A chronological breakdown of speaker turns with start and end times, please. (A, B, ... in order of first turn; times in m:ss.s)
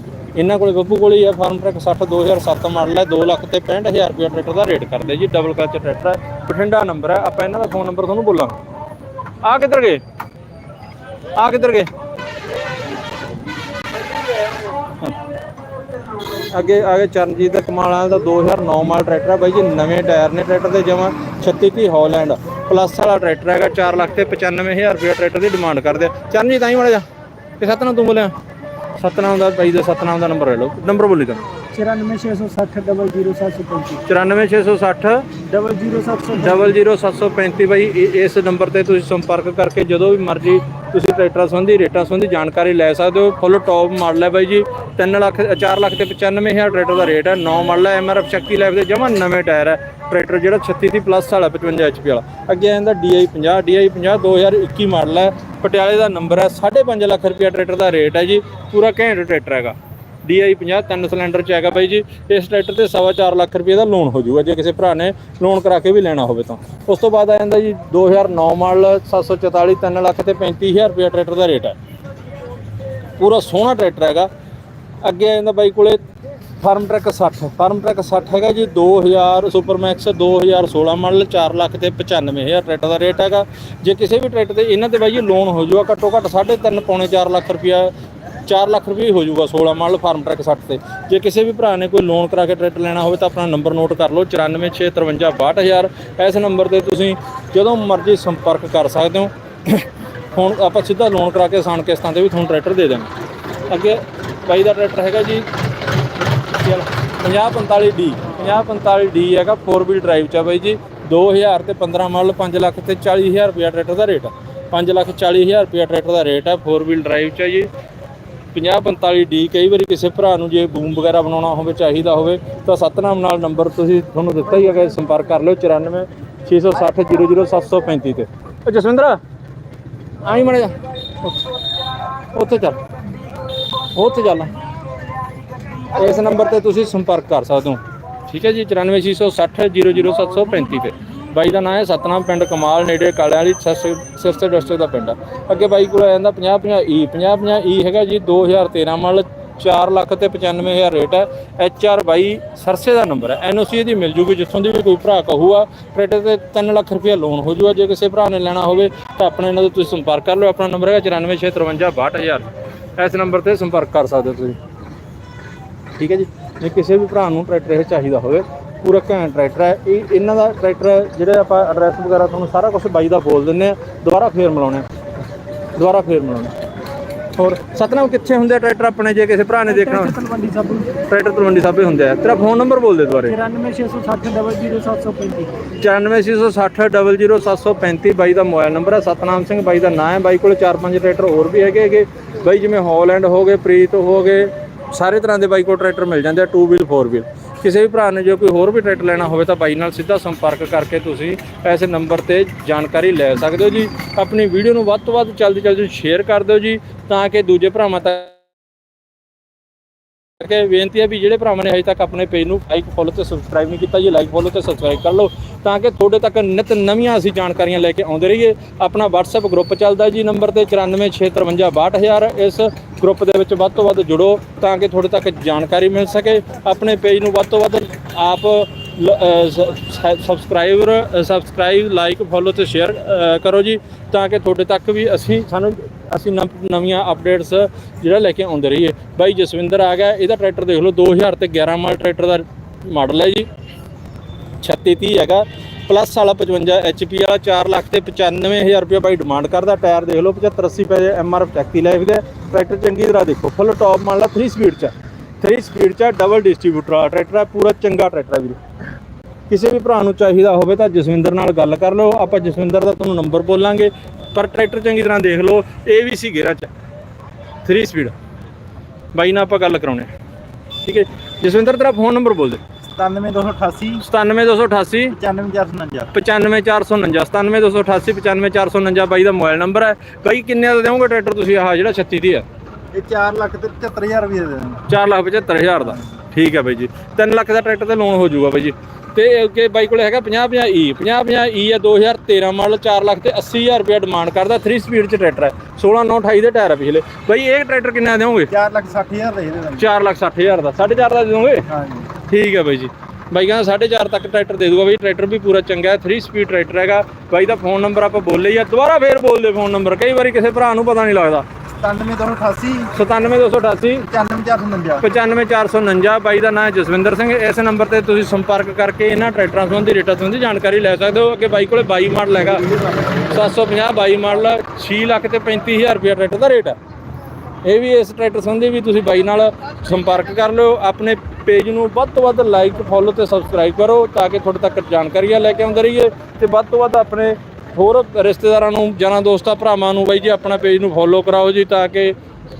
0:00.3-0:08.6 A
0:09.4-0:10.0 A
0:11.4-0:11.9 A
0:16.5-0:27.0 A
0:27.6-0:28.3 A
0:29.0-0:31.4 A
0:31.7-0:34.0 B
0:34.1-0:35.3 A
0:35.5-0:36.8 B
0:36.4-1:11.8 A
1:13.2-1:14.3 A
1:15.0-1:16.0 A
1:16.6-1:27.9 A
1:28.4-1:43.1 A
1:43.7-1:45.4 A
1:46.5-1:57.7 A
1:58.5-2:09.2 A
2:10.2-2:11.4 A
2:12.3-2:12.8 A
2:13.9-2:14.5 A
2:15.9-2:44.6 A
2:46.0-2:54.8 A
2:55.8-2:56.5 A
2:57.4-3:00.1 A
2:59.6-3:01.0 B
3:01.1-3:03.3 A
3:03.2-3:05.7 B
3:05.8-3:28.3 A
3:30.4-4:03.5 A
4:04.6-4:18.6 A
4:19.5-4:26.7 A
4:27.6-4:28.1 A
4:29.1-4:30.1 A
4:30.8-4:32.6 A
4:32.9-4:34.0 C
4:34.0-4:35.2 A
4:35.1-4:36.1 C
4:36.1-4:42.4 A
4:42.9-4:44.8 C
4:44.9-4:58.5 A
4:58.5-4:59.9 C
4:59.8-5:01.6 A
5:01.7-5:02.1 C
5:02.3-5:11.4 A
5:11.8-5:12.9 C
5:12.9-5:14.1 A
5:14.1-5:15.0 C
5:15.0-5:22.7 A
5:22.6-5:23.4 C
5:23.3-5:26.8 A
5:27.6-5:42.1 A